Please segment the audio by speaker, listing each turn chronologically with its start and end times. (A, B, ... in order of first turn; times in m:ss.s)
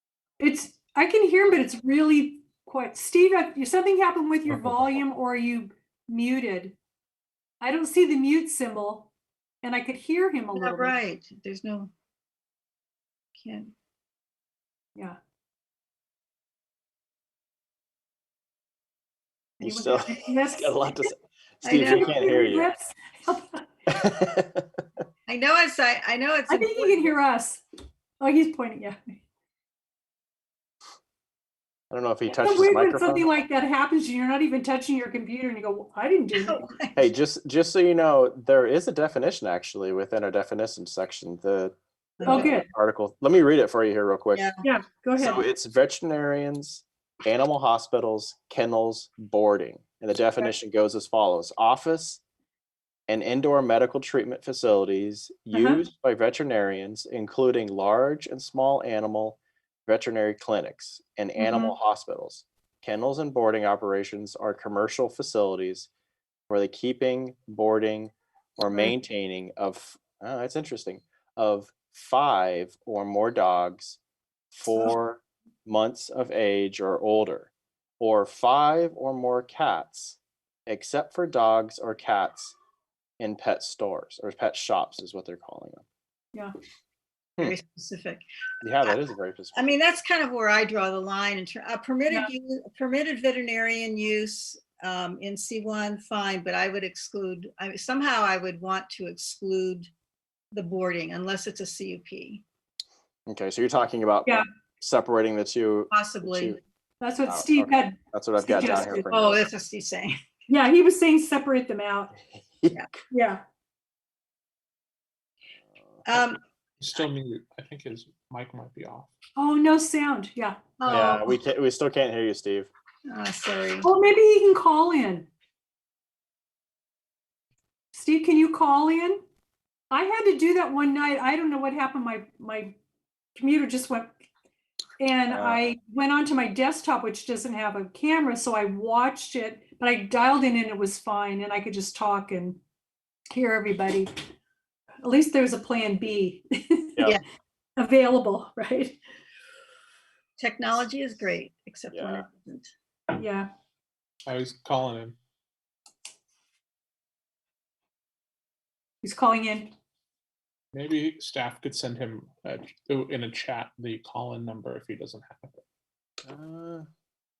0:00.4-0:06.8 A
0:07.6-0:09.1 A
0:09.6-0:11.0 A
0:10.5-0:11.9 B
0:13.4-0:13.7 B
0:19.6-0:22.7 C
0:19.6-0:21.0 A
0:21.6-0:22.4 B
0:21.8-0:23.7 A
0:23.9-0:24.6 C
0:25.3-0:27.0 B
0:26.5-0:27.6 A
0:28.2-0:29.2 A
0:31.9-0:33.3 C
0:32.3-0:36.6 A
0:36.3-0:37.1 B
0:37.0-0:44.5 C
0:42.2-0:42.5 B
0:42.2-0:42.7 A
0:44.3-0:44.6 B
0:44.6-0:45.4 A
0:45.2-0:52.2 C
0:53.1-1:05.9 C
0:55.5-0:55.8 A
1:01.4-1:01.7 A
1:06.5-1:14.0 C
1:14.5-1:22.6 C
1:23.2-1:25.8 C
1:27.4-1:28.2 B
1:28.6-1:29.8 C
1:29.6-1:39.9 B
1:40.5-1:42.4 B
1:43.3-1:46.6 C
1:45.9-1:46.6 B
1:47.0-1:49.1 A
1:47.3-1:49.5 C
1:48.6-1:50.2 B
1:50.5-1:52.1 A
1:53.1-1:53.4 A
1:55.7-1:56.2 C
1:56.1-1:56.4 B
1:56.8-1:59.1 D
1:59.4-2:00.6 A
2:00.8-2:01.4 B
2:00.9-2:02.7 C
2:03.1-2:03.9 B
2:03.8-2:05.3 A
2:07.9-2:09.2 A
2:09.9-2:12.8 A
2:13.4-2:14.2 A
2:15.0-2:22.6 A
2:15.3-2:15.7 C
2:23.3-2:24.1 A
2:25.0-2:27.0 A
2:27.8-2:29.0 A
2:30.4-2:32.7 B
2:31.9-2:32.2 C
2:33.2-2:33.5 A
2:34.3-2:35.2 D
2:39.0-2:39.7 A
2:40.7-2:45.6 D
2:46.2-2:46.9 C